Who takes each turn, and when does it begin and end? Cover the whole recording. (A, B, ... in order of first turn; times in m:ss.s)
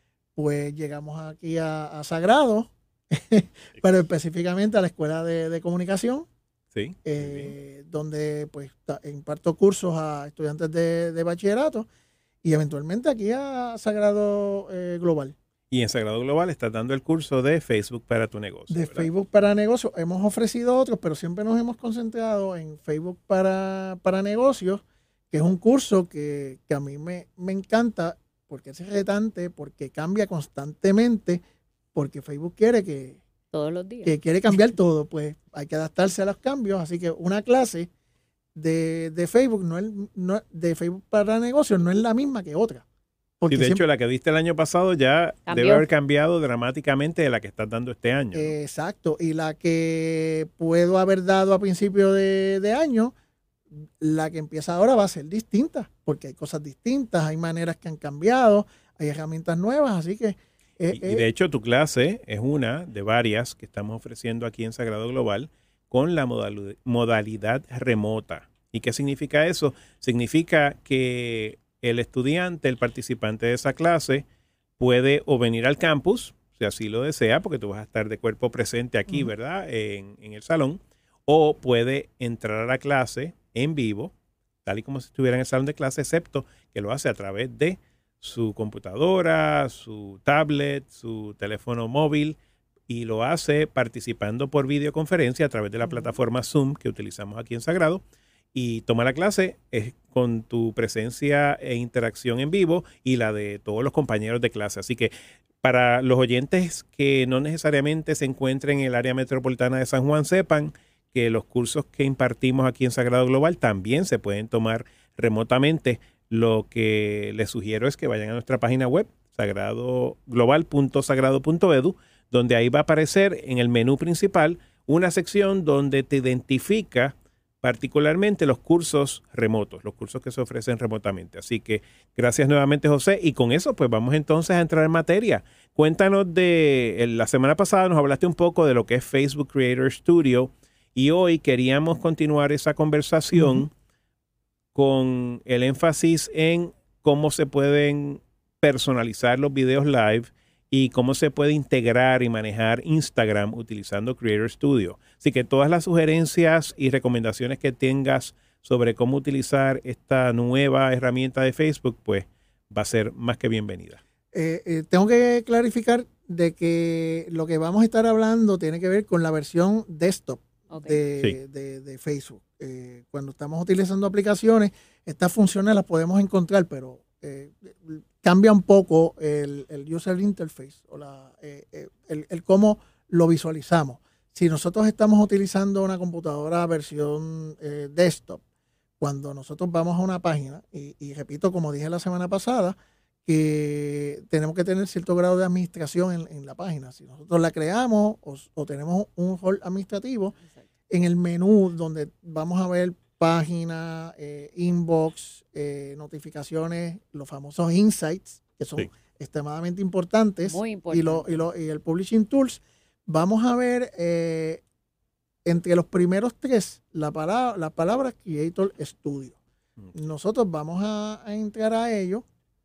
0:00.4-0:06.3 A
0:06.7-0:07.5 B
0:07.0-0:11.9 A
0:12.4-0:15.4 A
0:15.7-0:19.1 B
0:18.7-0:31.4 A
0:31.9-0:33.2 A
0:33.5-0:34.1 C
0:34.0-0:37.9 A
0:38.6-0:42.8 A
0:43.4-0:43.8 A
0:43.5-0:48.5 B
0:45.5-0:45.9 C
0:48.3-0:53.1 A
0:53.7-1:01.2 A
1:00.9-1:14.3 B
1:14.8-1:24.1 B
1:24.6-1:32.4 B
1:32.9-1:38.0 B
1:38.5-2:23.7 B
2:23.3-2:23.6 A
2:24.8-2:44.0 B
2:44.3-3:08.4 A
2:50.7-2:51.0 C
3:09.0-3:20.4 A
3:20.9-3:34.6 A
3:30.4-3:31.4 C
3:35.4-3:39.4 A
3:39.9-3:42.2 A